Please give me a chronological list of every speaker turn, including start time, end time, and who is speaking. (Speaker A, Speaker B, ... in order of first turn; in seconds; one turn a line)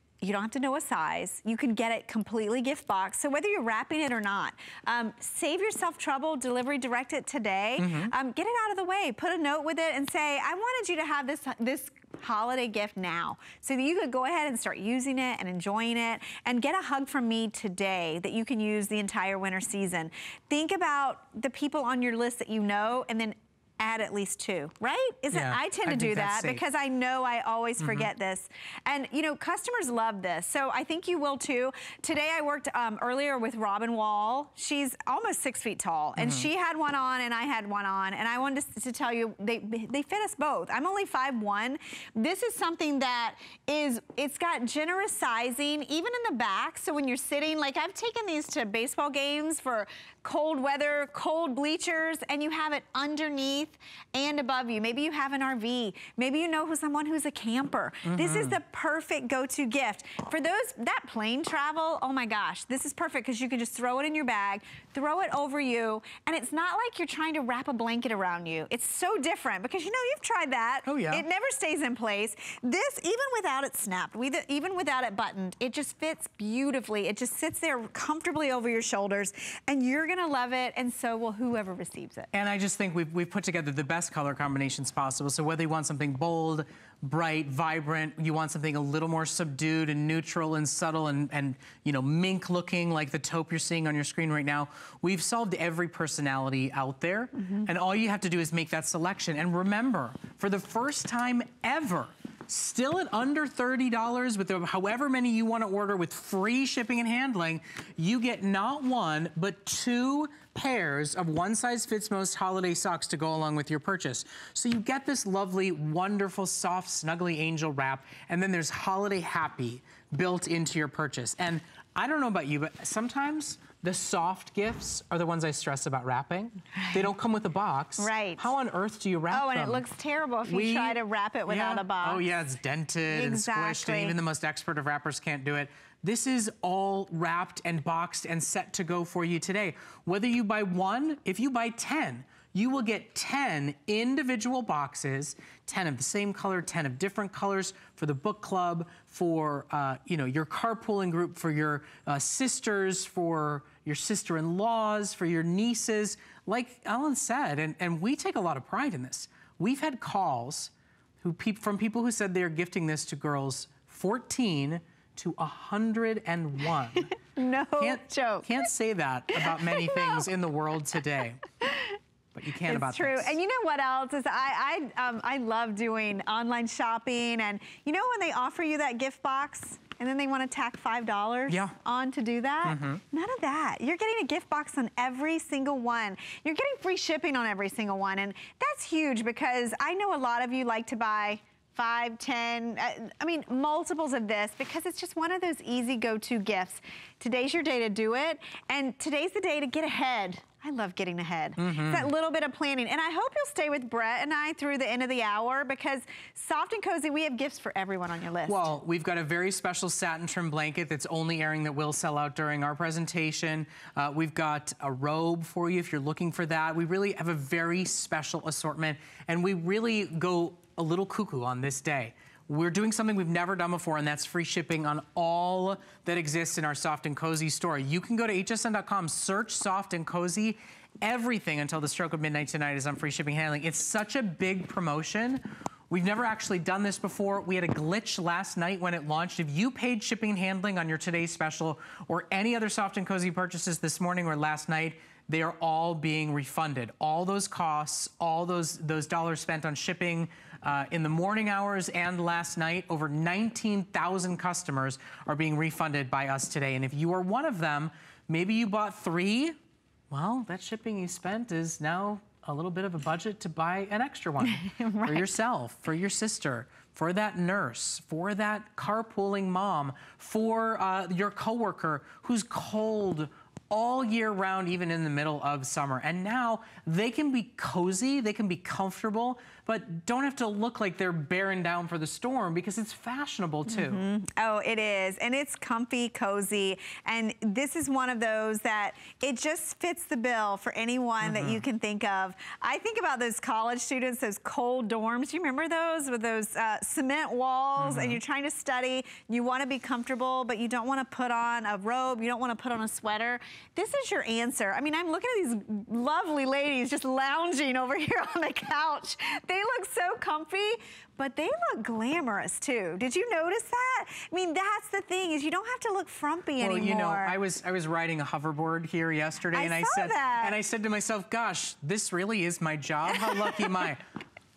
Speaker A: 0.2-82.3
Speaker B: 7.8-8.1
Speaker B: 25.3-26.6
Speaker B: 27.8-28.1
Speaker B: 36.2-36.5
Speaker B: 58.0-58.6
Speaker B: 70.8-71.2
Speaker B: 82.3-129.8
Speaker A: 126.8-127.1
Speaker A: 128.0-128.5
Speaker A: 129.3-132.3
Speaker B: 130.5-160.7
Speaker A: 133.1-134.2
Speaker B: 161.2-167.1
Speaker A: 167.3-168.7
Speaker B: 167.8-171.4
Speaker A: 169.3-170.2
Speaker A: 171.6-172.0
Speaker B: 172.3-173.4
Speaker A: 172.6-208.7
Speaker B: 181.5-181.8
Speaker B: 182.6-183.0
Speaker B: 201.6-202.1
Speaker B: 208.5-259.6
Speaker B: 260.1-284.0
Speaker A: 264.4-265.4
Speaker A: 283.7-317.4
Speaker B: 291.2-291.6
Speaker B: 297.8-298.2
Speaker B: 316.6-324.0
Speaker A: 319.5-320.6
Speaker A: 323.1-323.7